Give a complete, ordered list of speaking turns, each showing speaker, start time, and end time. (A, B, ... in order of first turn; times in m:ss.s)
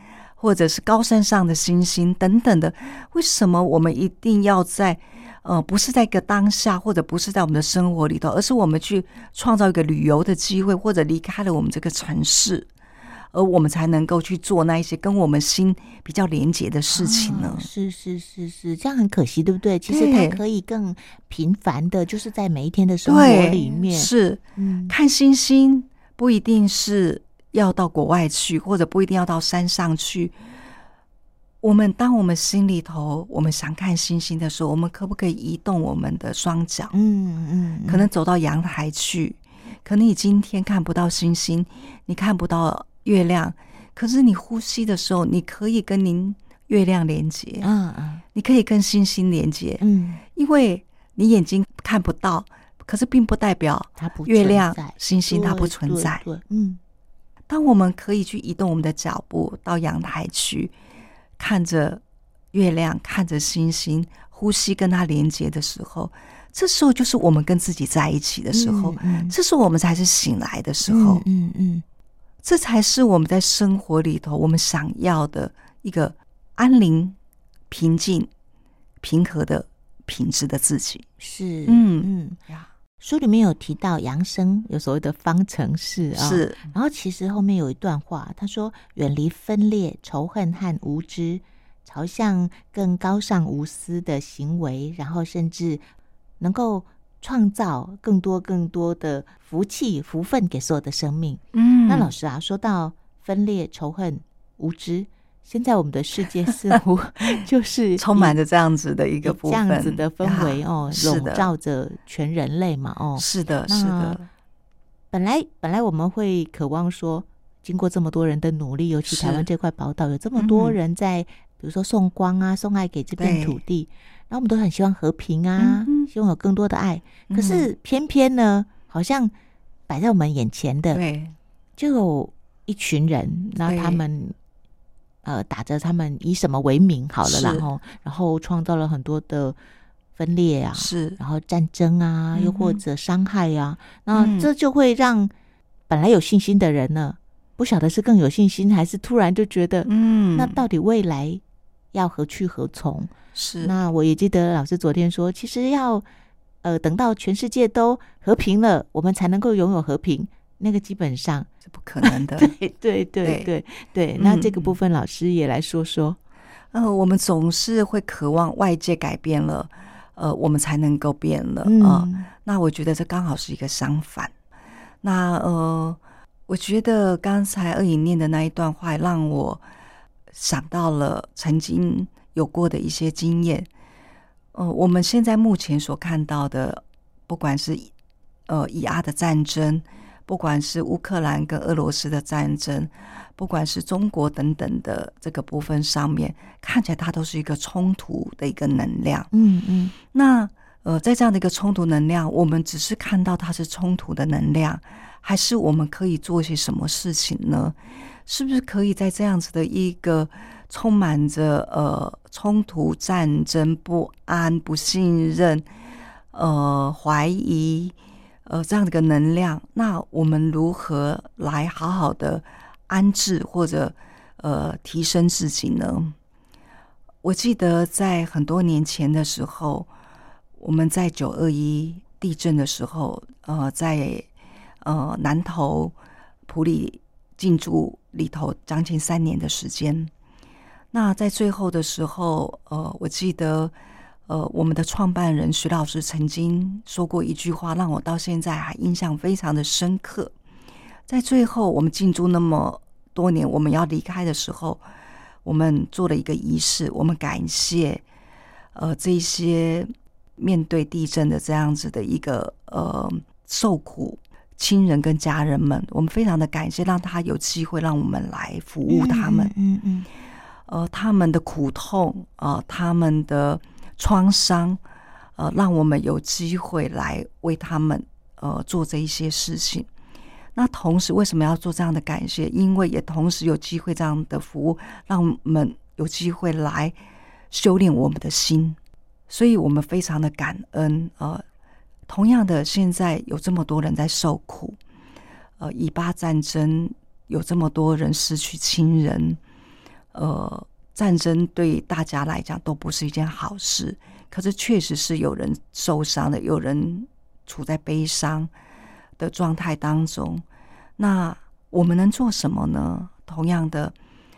0:00.4-0:12.7 A
0:13.3-0:17.7 A
0:16.9-0:25.0 B
0:19.9-0:20.4 A
0:23.1-0:30.4 A
0:31.6-0:36.9 A
0:36.9-0:38.1 B
0:37.9-0:47.7 A
0:47.6-0:48.2 B
0:48.3-0:49.8 A
0:49.8-0:50.2 B
0:50.4-0:56.3 A
0:54.0-0:56.8 B
0:57.5-1:00.7 A
1:01.4-1:02.0 A
1:02.5-1:11.2 A
1:08.5-1:09.4 B
1:10.9-1:11.8 B
1:12.4-1:17.2 A
1:17.7-1:18.3 A
1:19.0-1:21.1 A
1:21.2-1:22.4 B
1:21.7-1:22.7 A
1:23.0-1:35.8 B
1:26.2-1:26.7 A
1:36.4-1:48.4 B
1:41.5-1:42.1 A
1:48.0-1:51.5 A
1:49.2-1:54.2 B
1:53.2-1:54.3 A
1:55.1-2:09.3 B
1:59.1-1:59.5 A
2:00.4-2:00.8 A
2:03.2-2:03.6 A
2:05.6-2:06.1 A
2:07.3-2:07.7 A
2:09.9-2:11.0 B
2:10.9-2:11.4 A
2:11.8-2:14.4 B
2:13.6-2:14.0 A
2:15.2-2:19.6 B
2:17.2-2:17.7 A
2:20.2-2:25.3 B
2:20.8-2:21.2 A
2:22.3-2:22.8 A
2:24.1-2:24.5 A
2:25.9-2:31.4 B
2:29.9-2:30.6 A
2:31.9-2:36.0 B
2:33.3-2:33.7 A
2:36.6-2:41.5 B
2:41.7-2:42.5 A
2:42.0-2:46.2 B
2:43.2-2:43.5 A
2:44.2-2:44.8 A
2:46.7-2:54.3 A
2:51.6-2:52.3 B
2:55.0-2:59.6 A
3:00.3-3:03.7 A
3:04.5-3:07.9 A
3:08.5-3:19.3 A
3:19.3-3:19.9 B
3:20.1-3:35.7 A
3:36.3-3:38.0 A
3:38.5-3:46.2 A
3:47.2-3:49.9 A
3:50.6-3:54.3 A
3:54.8-3:55.9 A
3:56.5-4:00.1 A
4:00.9-4:03.7 A
4:04.3-4:10.3 A
4:11.1-4:14.8 A
4:15.4-4:18.0 A
4:18.8-4:29.5 A
4:28.9-4:30.1 B
4:30.7-4:34.8 A
4:35.4-4:39.9 A
4:40.6-4:47.0 A
4:47.5-4:48.8 A
4:49.3-4:51.4 A
4:52.1-4:54.8 A
4:55.6-4:59.4 A
5:00.1-5:08.5 A
5:09.2-5:10.4 A
5:11.0-5:14.0 A